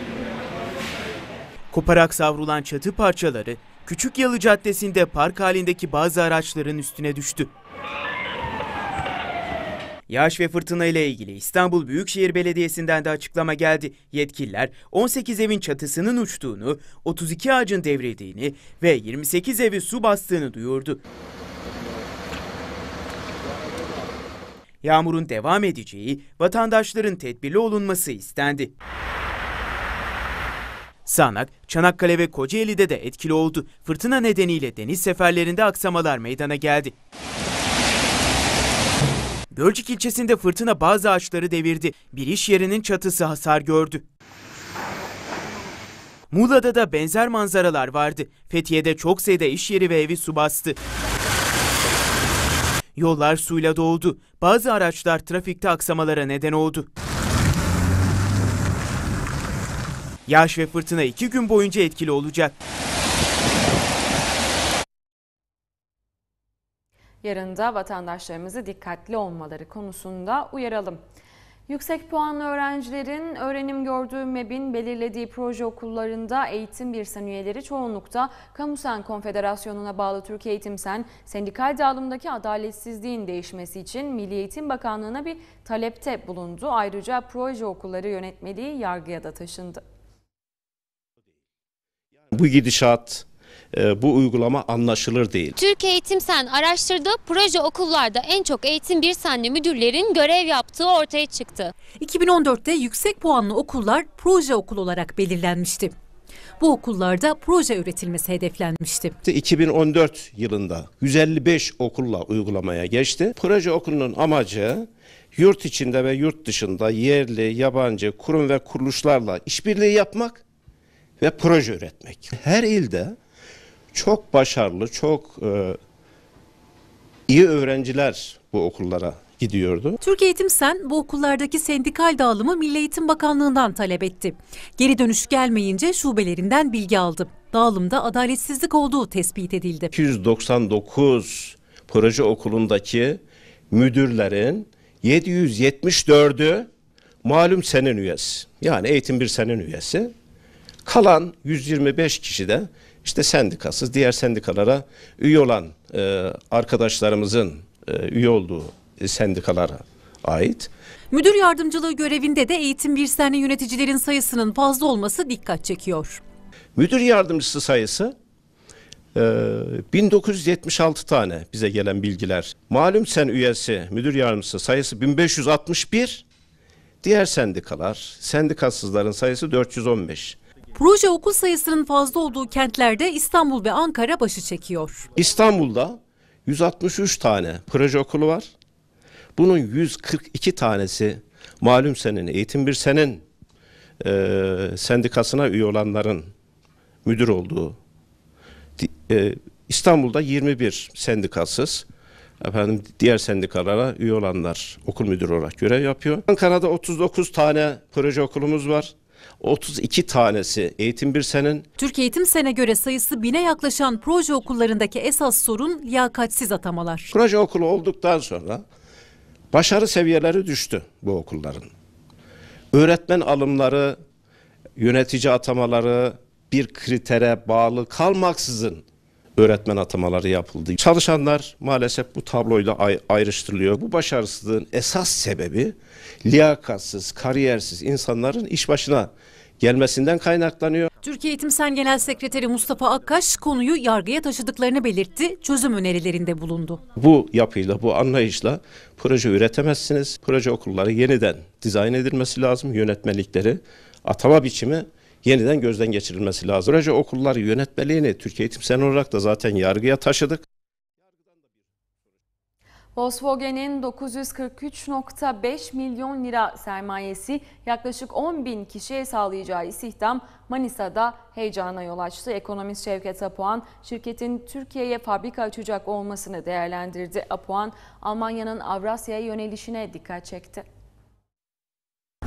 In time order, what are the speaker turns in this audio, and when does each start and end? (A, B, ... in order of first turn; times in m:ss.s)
0:01.7-0:07.5 A
0:10.1-0:21.0 A
0:24.8-0:28.7 A
0:31.1-0:36.9 A
0:39.5-0:44.0 A
0:46.3-0:50.8 A
0:53.0-0:56.9 A
1:00.3-1:02.6 A
1:07.2-1:11.0 B
1:11.7-1:29.8 B
1:32.3-1:35.6 C
1:35.6-1:41.7 D
1:42.0-1:45.9 E
1:46.6-1:49.2 E
1:49.2-2:00.4 C
2:01.2-2:03.2 C
2:03.9-2:05.8 C
2:07.3-2:10.0 C
2:10.0-2:19.9 E
2:19.9-2:23.2 C
2:23.7-2:26.7 C
2:27.2-2:30.1 C
2:30.8-2:40.7 C
2:41.1-2:46.2 E
2:46.8-2:48.2 C
2:49.2-2:56.2 C
2:57.0-3:00.4 C
3:00.8-3:05.1 E
3:05.1-3:08.5 C
3:09.4-3:13.2 C
3:14.0-3:16.3 C
3:17.0-3:17.8 C
3:18.8-3:21.8 C
3:22.4-3:31.7 C
3:31.8-3:37.1 E
3:37.1-3:38.6 C
3:39.5-3:41.7 C
3:42.7-3:44.0 C
3:44.8-3:48.8 C
3:49.4-4:00.9 C
4:01.0-4:06.8 E
4:06.9-4:20.4 C
4:23.0-4:40.6 B